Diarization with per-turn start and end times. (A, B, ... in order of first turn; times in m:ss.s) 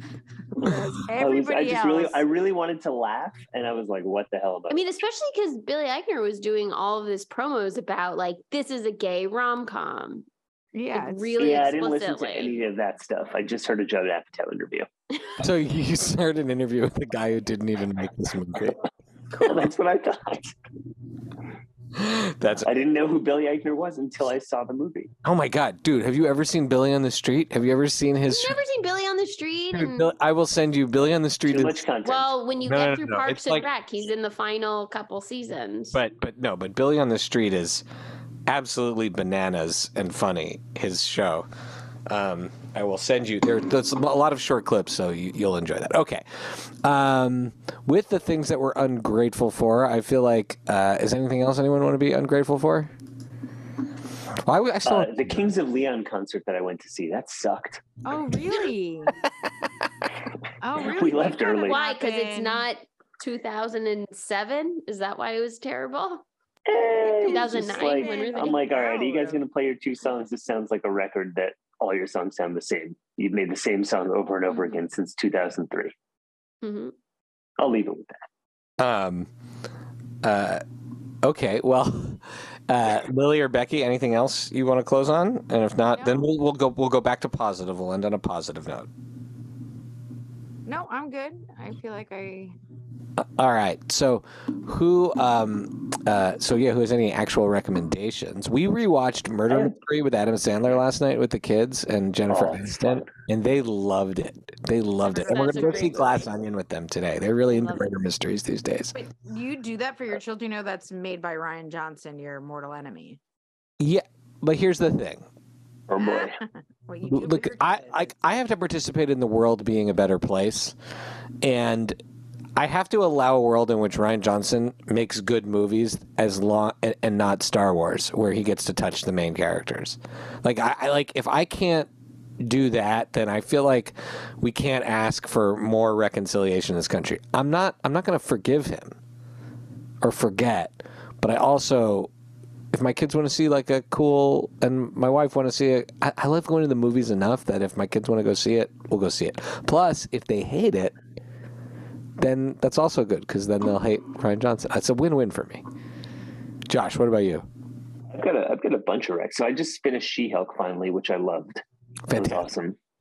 0:00.5-0:02.2 A
0:00.7-0:04.9 B
0:04.7-0:10.3 C
0:10.7-0:11.6 A
0:10.9-0:12.6 C
0:11.4-0:14.9 B
0:15.4-0:18.8 D
0:19.3-0:20.5 B
0:21.9-0:22.7 D
0:22.6-0:25.1 B
0:25.2-0:28.6 D
0:28.3-0:30.1 C
0:29.7-0:31.8 D
0:31.4-0:32.3 B
0:32.0-0:36.0 C
0:32.7-0:33.7 D
0:35.9-0:37.8 D
0:38.5-0:41.5 D
0:42.1-0:52.9 D
0:54.3-0:55.5 D
0:54.8-0:58.0 B
0:58.0-0:59.1 A
1:00.6-1:02.6 A
1:00.8-1:01.8 B
1:01.6-1:06.2 C
1:06.7-1:15.9 B
1:07.0-1:09.4 A
1:07.2-1:08.6 C
1:14.5-1:14.8 A
1:16.6-1:16.9 C
1:17.6-1:18.2 B
1:18.8-1:19.3 D
1:20.2-1:20.6 D
1:21.2-1:28.9 D
1:25.9-1:26.2 A
1:30.6-1:32.6 A
1:33.2-1:48.9 D
1:39.5-1:39.7 B
1:42.3-1:43.1 B
1:45.0-1:46.3 A
1:45.2-1:46.0 C
1:47.4-1:47.9 A
1:48.9-1:53.2 A
1:53.8-1:55.3 D
1:55.9-1:56.4 B
1:56.0-1:58.1 A
1:57.1-2:00.8 D
2:01.4-2:02.0 D
2:02.6-2:19.0 D
2:20.0-2:22.1 D
2:22.7-2:30.9 D
2:32.2-2:35.6 D
2:36.7-2:37.5 D
2:38.1-2:41.6 B
2:42.1-2:42.5 D
2:42.1-2:42.8 B